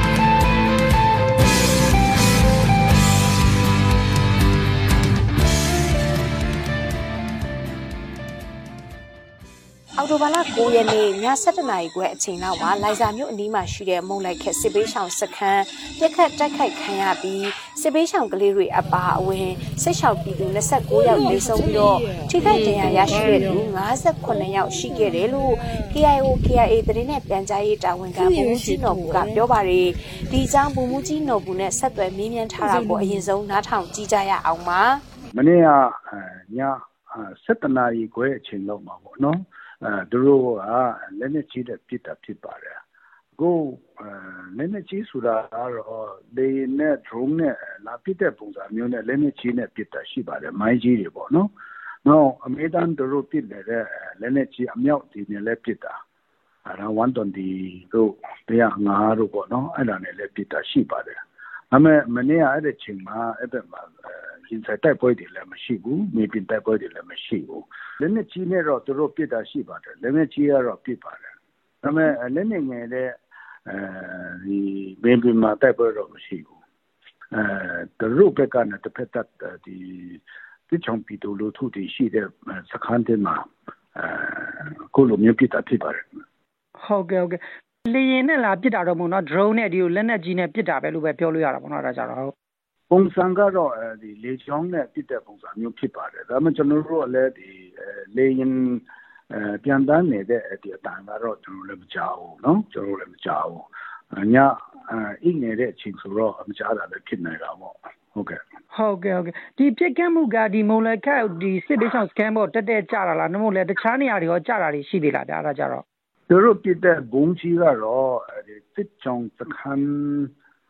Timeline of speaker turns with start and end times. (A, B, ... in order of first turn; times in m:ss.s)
0:10.0-0:35.0 A
0:35.3-0:42.8 B
0:43.4-0:51.5 B
0:52.0-0:55.9 B
0:56.6-1:01.2 B
1:01.7-1:11.3 B
1:11.8-1:16.6 B
1:17.3-1:23.4 B
1:24.0-1:26.1 B
1:26.8-1:32.3 C
1:32.9-1:48.4 B
1:48.7-1:55.8 C
1:56.3-2:00.3 B